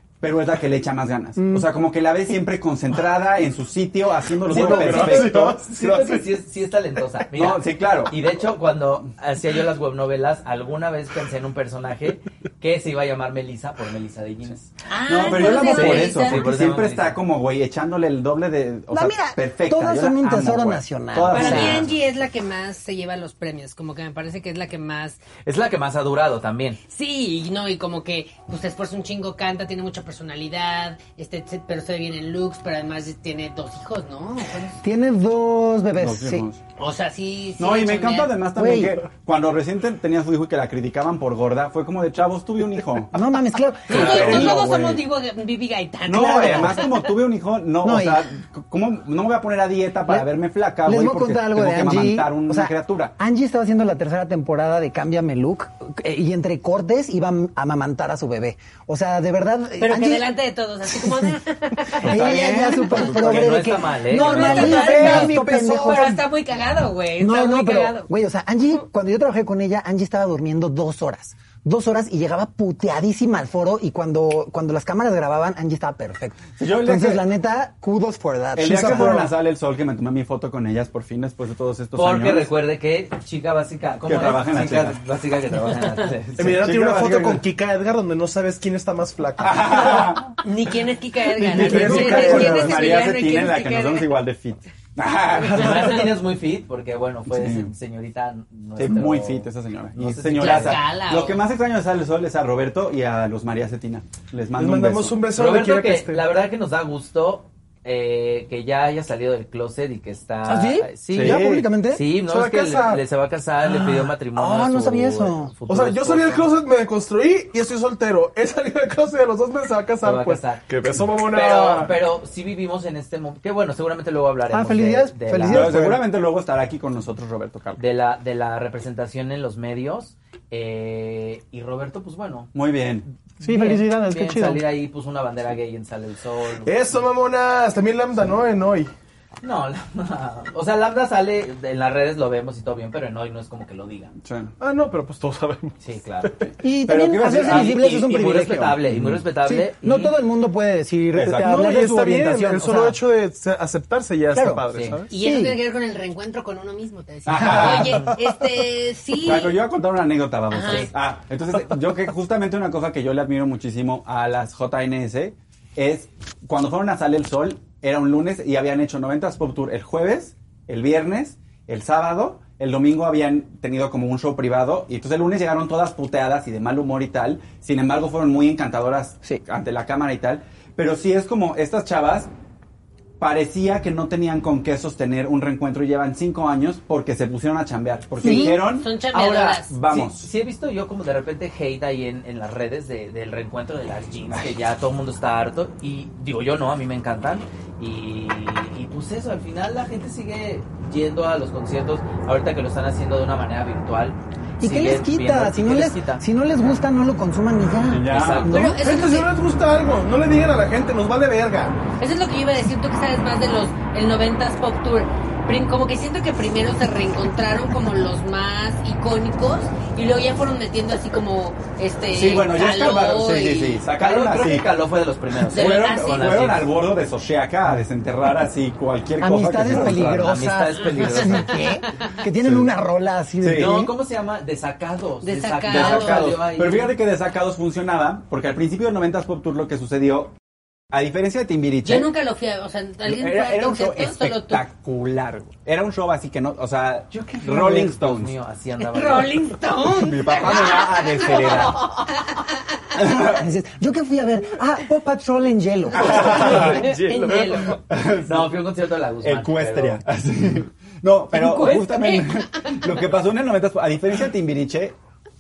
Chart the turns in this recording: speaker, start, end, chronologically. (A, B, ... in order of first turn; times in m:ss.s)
0:00.2-0:05.6 A
0:01.4-0:01.7 B
0:04.4-0:06.3 C
0:04.5-0:14.7 D
0:07.3-0:08.2 A
0:14.9-0:16.5 E
0:15.1-0:22.0 A
0:15.4-0:17.2 D
0:18.9-0:21.9 B
0:21.3-0:25.2 E
0:25.4-0:26.8 D
0:26.9-0:34.8 E
0:34.8-0:36.5 B
0:36.0-0:36.6 A
0:36.8-0:38.3 E
0:37.6-0:43.2 A
0:38.6-0:39.0 B
0:43.1-0:44.6 B
0:43.9-0:45.0 A
0:43.9-0:47.1 E
0:46.1-0:53.2 A
0:46.2-0:46.8 B
0:47.8-0:48.2 B
0:50.8-1:00.3 B
0:59.8-1:03.0 E
1:00.9-1:01.3 B
1:02.0-1:05.4 A
1:02.0-1:06.2 B
1:03.2-1:04.8 D
1:04.1-1:08.1 E
1:07.2-1:19.2 B
1:16.6-1:17.2 A
1:18.6-1:22.5 A
1:18.6-1:19.3 C
1:22.0-1:26.6 D
1:24.0-1:25.0 A
1:26.4-1:30.0 C
1:26.4-1:27.4 A
1:29.4-1:30.4 A
1:30.4-1:34.2 E
1:31.3-1:36.1 A
1:31.5-1:32.9 C
1:35.5-1:40.8 D
1:37.3-1:37.7 A
1:38.8-1:45.2 A
1:40.4-1:41.4 E
1:44.6-1:46.2 C
1:45.3-1:56.5 D
1:50.4-1:52.0 B
1:51.1-1:51.7 A
1:52.1-1:53.0 C
1:53.6-1:55.5 B
1:55.7-2:02.0 C
2:00.0-2:05.7 D
2:04.5-2:06.0 B
2:05.5-2:07.8 A
2:07.8-2:12.5 D
2:12.5-2:13.0 A
2:13.4-2:17.0 D
2:13.4-2:14.6 B
2:16.6-2:18.9 C
2:19.4-2:24.2 D
2:24.2-2:24.5 A
2:24.6-2:26.5 C
2:25.8-2:26.5 D
2:26.6-2:28.8 B
2:26.8-2:28.1 A
2:27.3-2:30.2 D
2:28.9-2:29.2 A
2:29.4-2:33.0 B
2:31.1-2:31.6 A
2:31.4-2:35.1 C
2:34.3-2:35.6 B
2:34.7-2:35.0 D
2:35.1-2:39.6 E
2:37.3-2:38.1 A
2:39.2-3:02.3 A
2:40.5-2:40.9 E
3:03.2-3:08.9 A
3:08.2-3:08.6 B
3:08.2-3:09.7 E
3:09.1-3:26.7 D
3:09.7-3:10.3 A
3:24.6-3:28.4 B
3:27.9-3:28.6 A
3:28.1-3:28.8 D
3:28.4-3:29.3 E
3:28.8-3:31.8 C
3:32.0-3:43.8 E
3:42.1-3:44.7 A
3:44.0-3:46.7 D
3:45.5-3:46.5 E
3:45.5-3:50.4 A
3:49.2-3:53.9 B
3:50.1-3:51.5 D
3:51.2-3:52.1 E
3:52.4-3:52.7 A
3:53.4-3:53.7 A
3:53.5-3:57.0 D
3:55.2-3:56.3 E
3:55.7-4:00.3 A
4:00.9-4:02.1 A
4:01.8-4:04.6 E
4:03.1-4:08.4 A
4:07.1-4:09.5 D
4:08.9-4:12.5 E
4:09.9-4:12.1 A
4:13.0-4:13.4 A
4:13.0-4:16.8 B
4:16.0-4:16.8 A
4:16.0-4:17.7 C
4:16.1-4:17.8 E
4:17.8-4:18.6 A
4:18.2-4:20.0 D
4:19.2-4:25.0 A
4:21.3-4:23.0 E